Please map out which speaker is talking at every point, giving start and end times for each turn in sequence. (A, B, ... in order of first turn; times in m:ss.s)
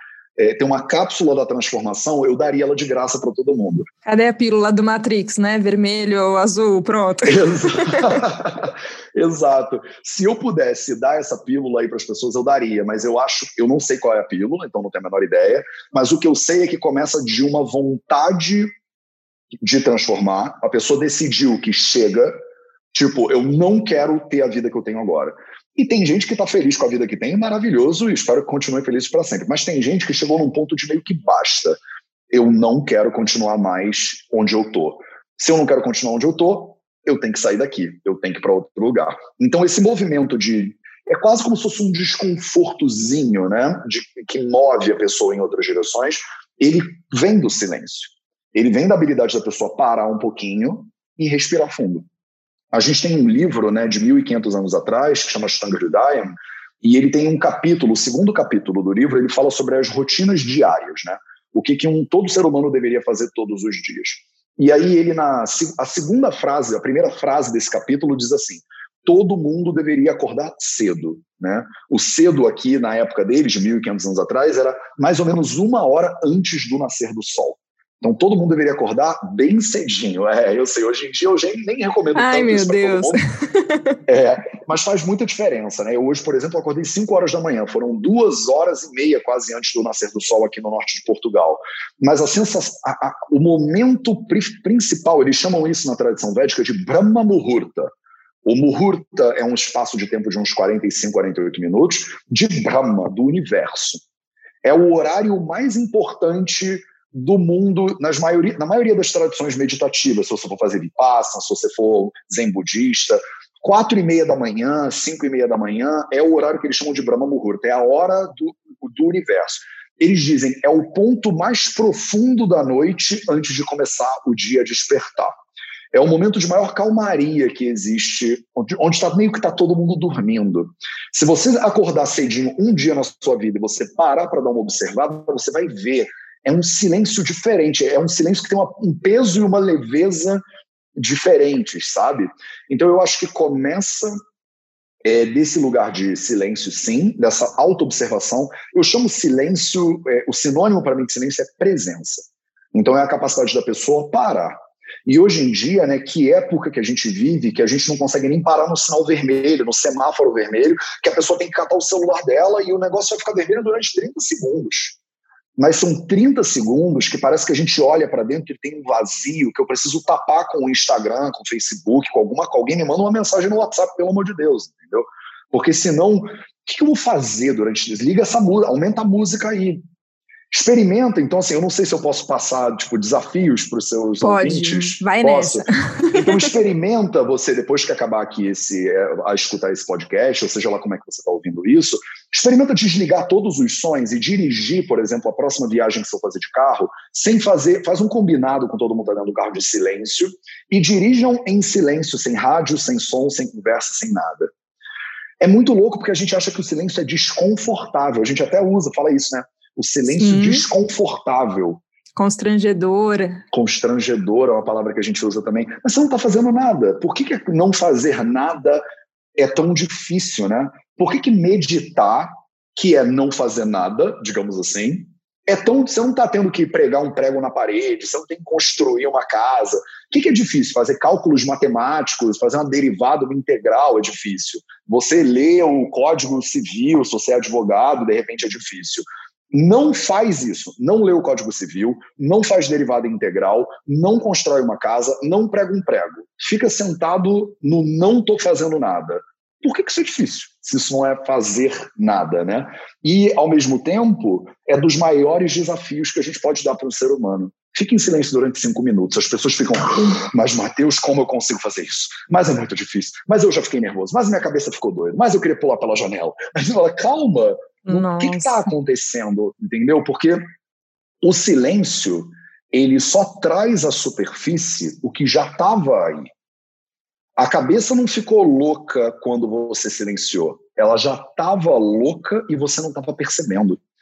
0:00.4-0:03.9 A
0:04.0-0:08.2 B
0:07.2-0:18.7 A
0:19.6-0:22.4 A
0:22.9-0:31.8 A
0:32.3-0:52.0 A
0:52.7-1:23.2 A
1:22.1-1:24.0 B
1:24.1-1:37.9 A
1:38.4-1:44.0 A
1:44.6-2:05.3 A
2:05.9-2:20.4 A
2:21.0-2:24.2 A
2:25.0-2:45.0 A
2:45.6-2:59.8 A
3:00.5-3:24.5 A
3:04.2-3:06.4 B
3:25.4-3:31.8 A
3:30.1-3:30.6 B
3:32.2-3:33.4 B
3:33.5-3:38.8 A
3:39.4-4:30.4 A
4:27.9-4:28.7 B
4:31.2-4:36.3 A
4:37.4-4:43.8 A